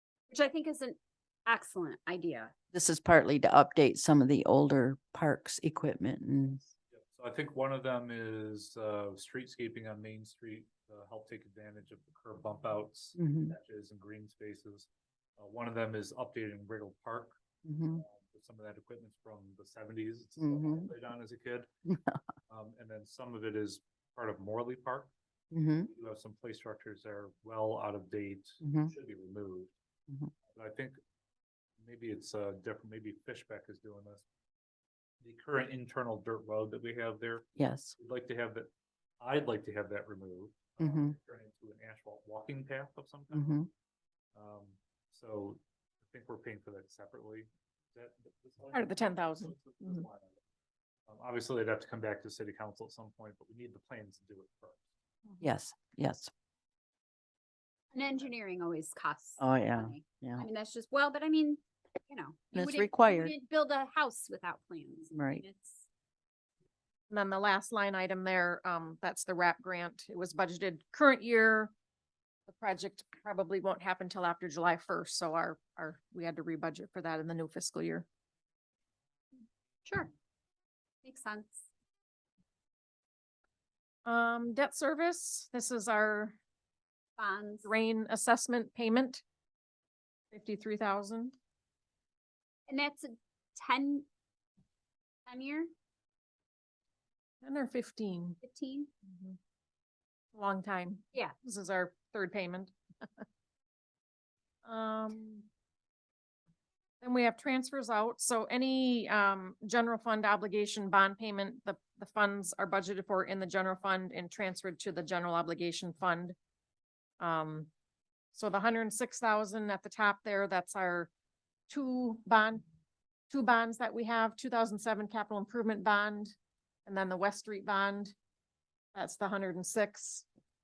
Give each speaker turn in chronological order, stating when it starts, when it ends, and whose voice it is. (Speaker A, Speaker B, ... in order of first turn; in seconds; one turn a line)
Speaker A: 0.3-2.5
Speaker B: 2.7-6.7
Speaker C: 6.9-17.4
Speaker B: 13.1-13.6
Speaker B: 17.6-18.0
Speaker C: 17.9-21.7
Speaker B: 20.4-20.9
Speaker B: 21.9-22.2
Speaker C: 22.5-25.1
Speaker B: 25.5-25.9
Speaker C: 25.8-29.7
Speaker B: 28.6-28.9
Speaker C: 30.5-31.0
Speaker C: 31.8-34.2
Speaker C: 35.2-38.7
Speaker B: 37.5-37.9
Speaker C: 39.2-43.6
Speaker B: 40.8-41.1
Speaker B: 43.3-43.7
Speaker C: 44.3-50.4
Speaker D: 48.7-50.0
Speaker C: 51.1-54.8
Speaker B: 55.4-56.3
Speaker A: 57.9-65.8
Speaker B: 59.4-60.5
Speaker B: 62.5-63.3
Speaker B: 65.1-65.4
Speaker D: 67.1-71.7
Speaker D: 72.5-78.0
Speaker A: 79.8-80.1
Speaker A: 81.0-81.6
Speaker D: 84.0-86.4
Speaker A: 87.2-87.7
Speaker D: 87.6-89.2
Speaker D: 90.3-91.3
Speaker A: 92.7-94.0
Speaker A: 95.3-95.7
Speaker D: 97.4-98.4
Speaker A: 98.4-98.9
Speaker D: 99.0-99.4
Speaker D: 100.3-103.2
Speaker D: 104.6-105.5
Speaker D: 107.0-116.3
Speaker D: 117.2-117.7
Speaker D: 118.3-121.1
Speaker D: 121.7-122.6
Speaker D: 123.3-126.3
Speaker D: 126.8-128.1
Speaker D: 128.9-130.2